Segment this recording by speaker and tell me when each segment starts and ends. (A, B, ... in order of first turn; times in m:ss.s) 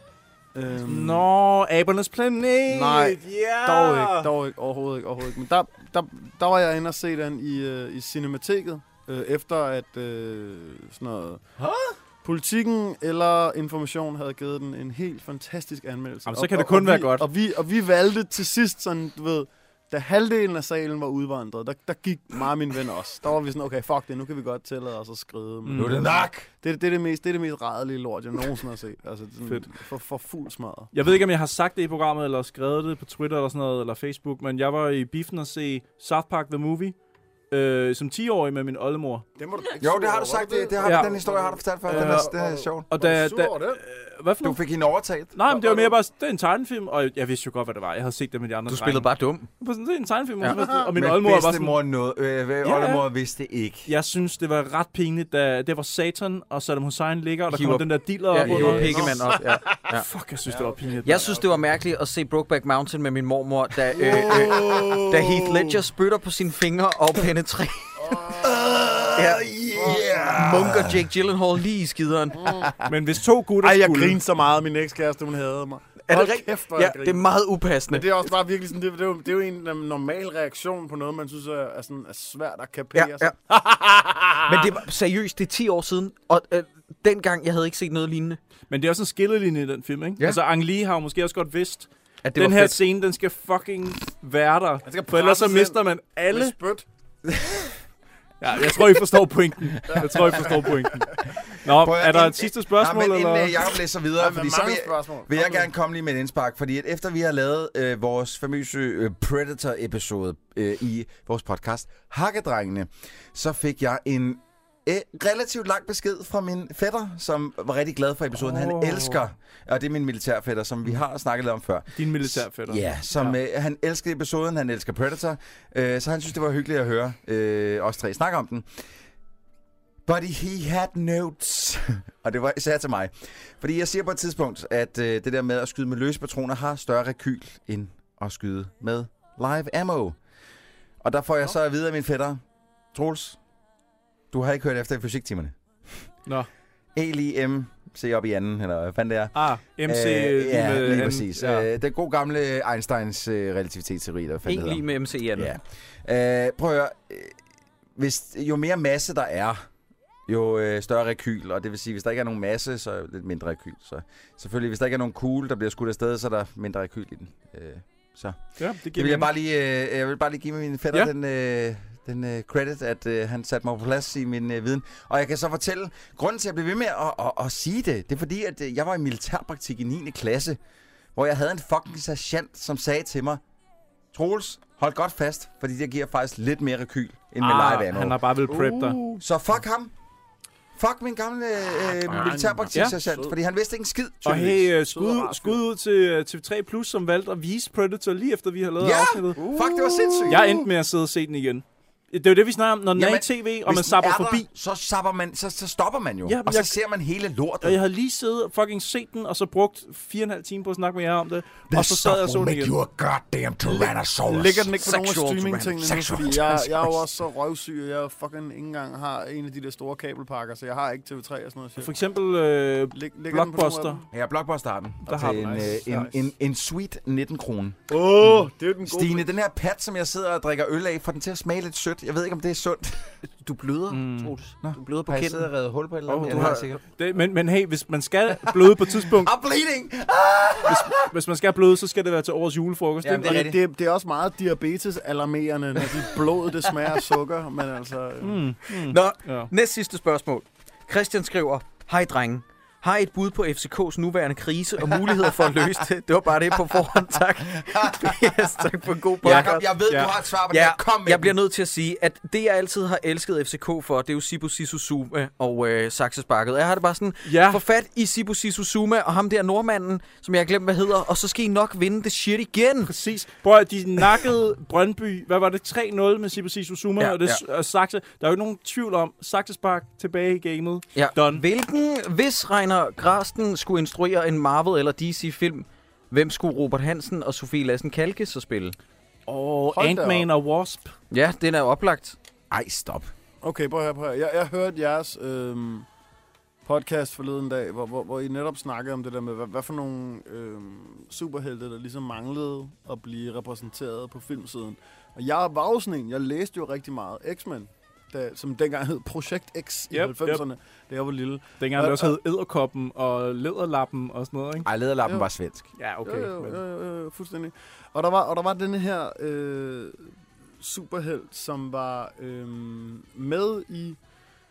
0:00.5-0:01.3 A
0:00.8-0:04.3 B
0:02.7-0:11.4 A
0:11.6-0:11.9 B
0:12.2-0:30.9 A
0:16.3-0:17.3 B
0:25.6-0:26.0 B
0:25.8-0:26.5 C
0:30.9-0:37.0 B
0:37.5-0:39.2 B
0:39.4-0:43.8 A
0:39.8-0:42.9 C
0:40.8-0:41.1 B
0:41.9-0:42.3 B
0:42.9-0:44.6 B
0:44.4-0:45.4 C
0:45.3-0:51.8 B
0:45.5-0:46.0 A
0:48.7-0:49.5 D
0:50.4-0:50.9 A
0:50.8-0:53.9 C
0:52.6-0:53.0 B
0:53.9-0:59.4 B
0:57.5-1:00.1 D
0:58.4-0:59.3 C
0:58.6-0:59.8 A
0:59.9-1:01.3 B
1:00.5-1:01.7 A
1:01.0-1:08.2 D
1:03.9-1:05.8 A
1:08.0-1:09.1 A
1:08.3-1:11.1 C
1:09.1-1:09.5 D
1:09.7-1:10.5 A
1:10.1-1:12.4 D
1:12.3-1:12.8 A
1:12.8-1:14.2 B
1:13.6-1:17.2 A
1:16.1-1:18.1 D
1:17.9-1:24.7 A
1:23.0-1:23.3 D
1:24.5-1:28.4 D
1:28.7-1:36.6 B
1:32.2-1:32.8 D
1:34.8-1:36.8 A
1:37.3-1:37.7 C
1:38.4-1:43.7 B
1:39.9-1:41.0 A
1:41.6-2:08.7 C
1:44.2-1:45.7 A
1:58.4-1:59.2 B
2:01.9-2:03.4 B
2:10.1-2:20.2 C
2:21.0-2:22.4 C
2:22.9-2:23.4 C
2:24.3-2:26.0 C
2:27.0-2:34.8 C
2:29.4-2:31.7 B
2:34.5-2:35.5 D
2:35.4-2:37.4 C
2:38.0-2:39.6 C
2:40.3-3:00.6 C
2:48.6-2:49.3 B
3:01.1-3:03.4 C
3:04.1-3:08.2 C
3:07.4-3:09.0 B
3:08.5-3:09.2 A
3:09.2-3:09.9 C
3:10.8-3:14.7 C
3:12.1-3:13.4 A
3:14.2-3:19.4 B
3:14.9-3:15.6 A
3:18.8-3:20.6 C
3:19.3-3:20.6 A
3:20.3-3:24.5 B
3:23.0-3:27.8 C
3:26.2-3:26.8 B
3:27.6-3:32.7 B
3:31.7-3:34.8 C
3:33.6-3:41.9 A
3:34.8-3:36.9 D
3:35.8-3:37.0 C
3:41.8-3:44.0 B
3:42.9-3:44.1 A
3:44.1-3:47.8 C
3:45.1-3:46.1 A
3:45.1-3:46.0 B
3:47.9-3:49.3 A
3:48.8-3:53.1 C
3:53.3-3:55.5 D
3:53.9-3:54.3 B
3:54.6-3:56.8 C
3:56.1-3:59.3 B
3:56.3-3:56.8 D
3:58.4-4:01.1 C
4:00.6-4:03.4 B
4:03.0-4:03.6 C
4:03.2-4:08.4 A
4:08.2-4:09.5 B
4:08.7-4:19.7 D
4:17.6-4:18.7 C
4:19.2-4:21.4 C
4:19.2-4:20.1 B
4:20.5-4:32.9 D
4:27.2-4:27.6 B
4:32.9-4:41.4 B
4:37.0-4:37.4 D
4:41.0-4:48.8 D
4:49.3-4:50.9 B
4:49.7-4:50.3 A
4:51.1-4:52.2 D
4:52.5-4:53.1 C
4:53.4-4:55.9 A
4:56.7-5:12.2 A
5:09.9-5:10.4 B
5:11.6-5:14.7 B
5:14.6-5:15.7 C
5:15.8-5:16.6 B
5:16.0-5:20.0 A
5:20.6-5:24.0 A